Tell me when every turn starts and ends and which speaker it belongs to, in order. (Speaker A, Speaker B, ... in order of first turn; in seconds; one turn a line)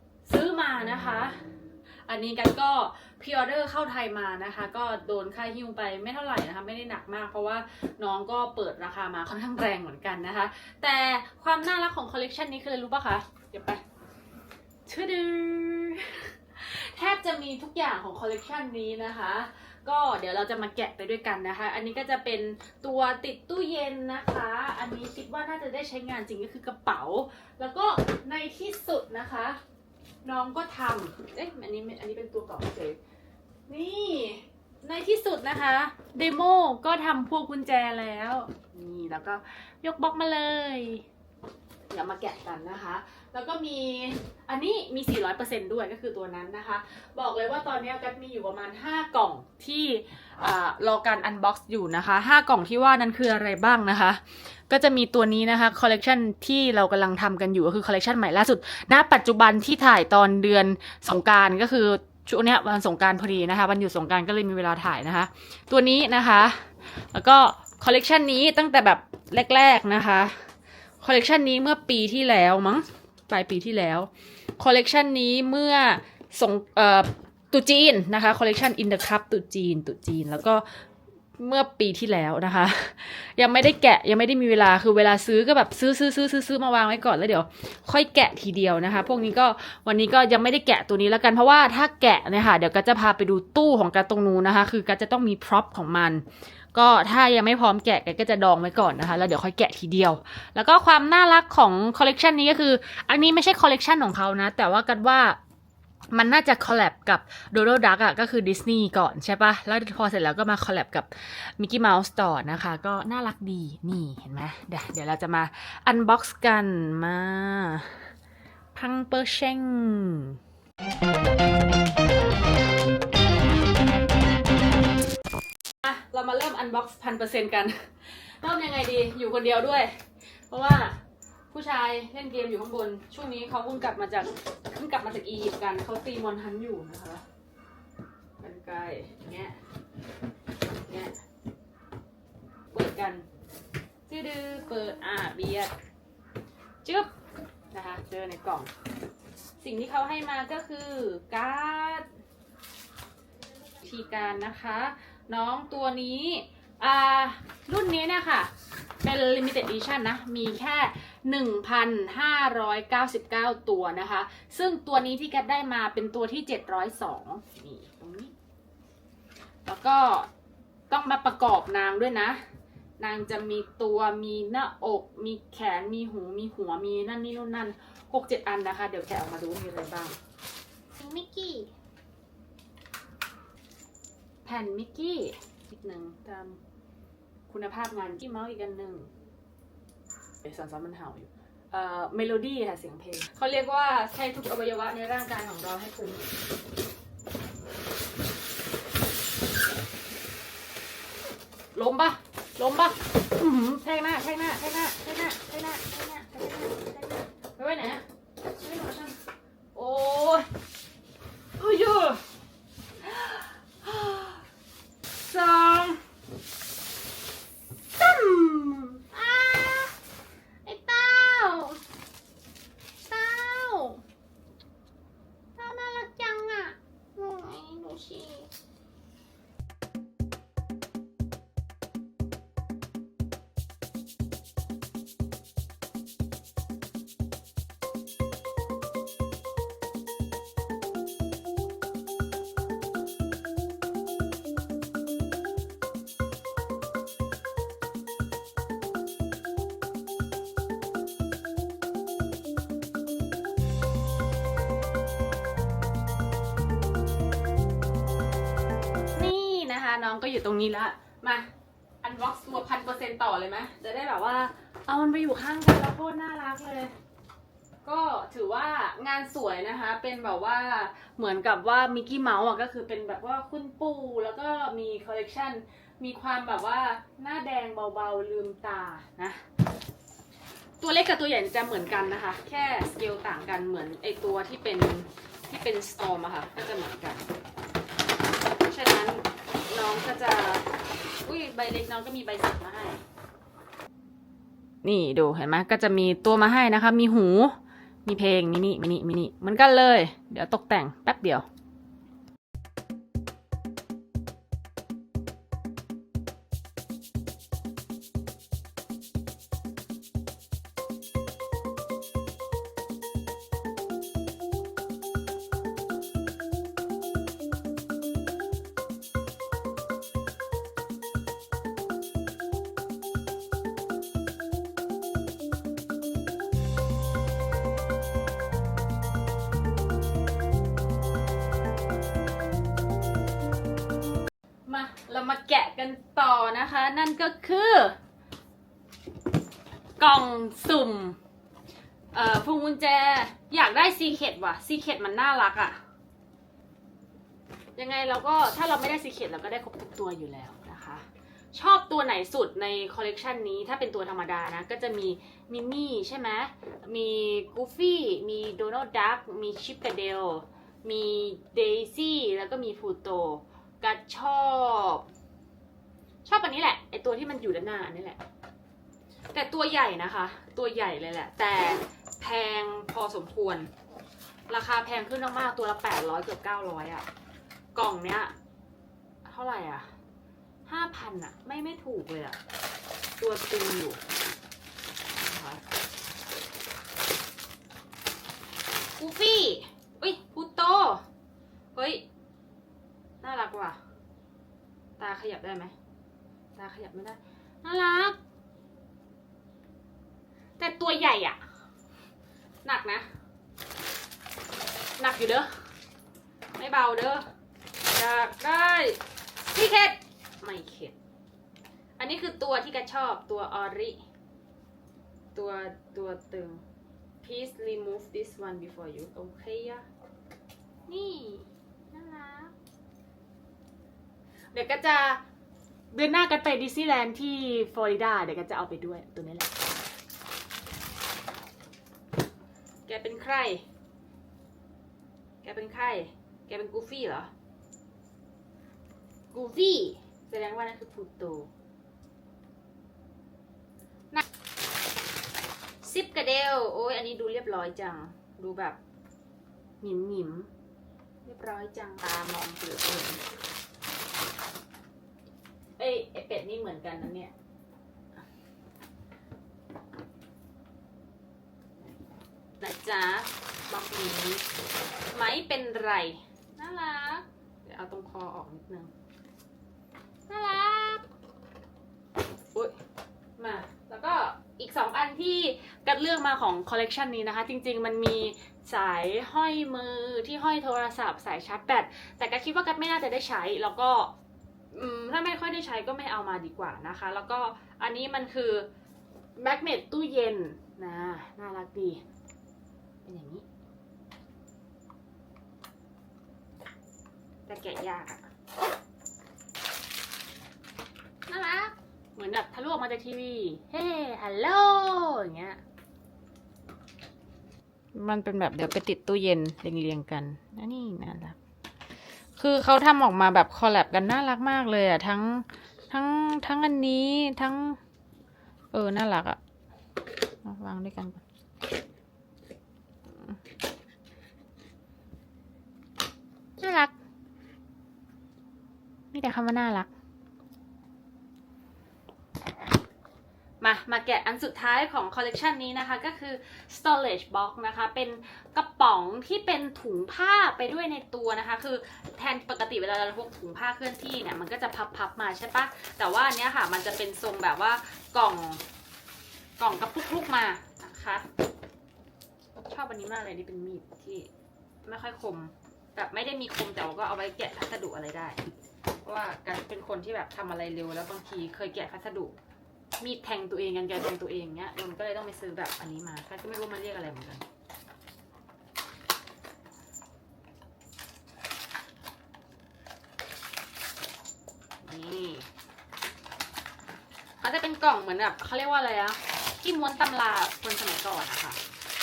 Speaker A: 0.2-1.4
Speaker A: 2.1-13.8
Speaker A: 14.8-29.6
Speaker A: 30.2-33.0
Speaker A: 33.7-41.0
Speaker A: 41.9-70.4
Speaker A: 71.0-80.6
Speaker A: 81.4-105.4
Speaker A: 106.1-118.1
Speaker A: 118.7-120.4
Speaker A: 125.8-131.0
Speaker A: 131.5-137.2
Speaker A: 138.4-139.6
Speaker A: 140.7-141.2
Speaker A: 142.7-143.2
Speaker A: 144.1-145.7
Speaker A: 146.8-147.1
Speaker A: 147.7-148.7
Speaker A: 149.6-152.1
Speaker A: 153.8-168.3
Speaker A: 169.7-170.3
Speaker A: 170.9-172.4
Speaker A: 173.0-180.2
Speaker A: 180.9-181.7
Speaker A: 184.4-186.6
Speaker A: 187.5-189.1
Speaker A: 190.4-196.2
Speaker A: 201.7-209.2
Speaker A: 209.7-210.5
Speaker A: 211.6-212.2
Speaker A: 213.0-214.4
Speaker A: 215.1-216.0
Speaker A: 217.9-219.9
Speaker A: 220.6-221.8
Speaker A: 223.1-224.0
Speaker A: 225.6-228.5
Speaker A: 259.1-261.5
Speaker A: 262.0-266.9
Speaker A: 267.8-279.4
Speaker A: 280.8-287.2
Speaker A: 288.6-290.7
Speaker A: 291.2-293.0
Speaker A: 294.8-301.4
Speaker A: 334.6-338.0
Speaker A: 340.0-341.2
Speaker A: 342.1-345.8
Speaker A: 347.8-365.1
Speaker A: 366.2-368.2
Speaker A: 369.3-373.7
Speaker A: 374.5-377.1
Speaker A: 377.7-378.3
Speaker A: 379.2-379.9
Speaker A: 380.6-382.4
Speaker A: 383.2-384.0
Speaker A: 385.1-385.6
Speaker A: 389.0-391.0
Speaker A: 391.7-392.0
Speaker A: 393.2-393.8
Speaker A: 395.0-395.7
Speaker A: 396.6-398.2
Speaker A: 400.6-401.4
Speaker A: 402.6-403.1
Speaker A: 405.0-405.5
Speaker A: 406.5-407.3
Speaker A: 407.8-410.9
Speaker A: 412.0-414.0
Speaker A: 415.3-416.6
Speaker A: 417.2-419.9
Speaker A: 420.9-422.5
Speaker A: 424.5-425.2
Speaker A: 425.9-429.5
Speaker A: 432.9-433.6
Speaker A: 435.4-437.3
Speaker A: 439.3-441.5
Speaker A: 445.8-448.8
Speaker A: 449.8-450.5
Speaker A: 451.2-453.2
Speaker A: 455.8-457.3
Speaker A: 462.6-464.4
Speaker A: 465.1-468.9
Speaker A: 470.3-471.0
Speaker A: 472.5-472.8
Speaker A: 473.4-484.1
Speaker A: 484.7-488.7
Speaker A: 489.4-492.0
Speaker A: 493.0-493.4
Speaker A: 497.4-498.2
Speaker A: 501.3-505.6
Speaker A: 507.9-511.4
Speaker A: 512.4-517.8
Speaker A: 518.7-519.4
Speaker A: 520.4-521.2
Speaker A: 523.1-523.4
Speaker A: 526.6-526.9
Speaker A: 529.1-529.9
Speaker A: 533.6-548.6
Speaker A: 549.6-551.2
Speaker A: 552.6-554.3
Speaker A: 554.8-558.4
Speaker A: 559.0-562.3
Speaker A: 563.0-567.5
Speaker A: 574.8-575.5
Speaker A: 577.4-581.6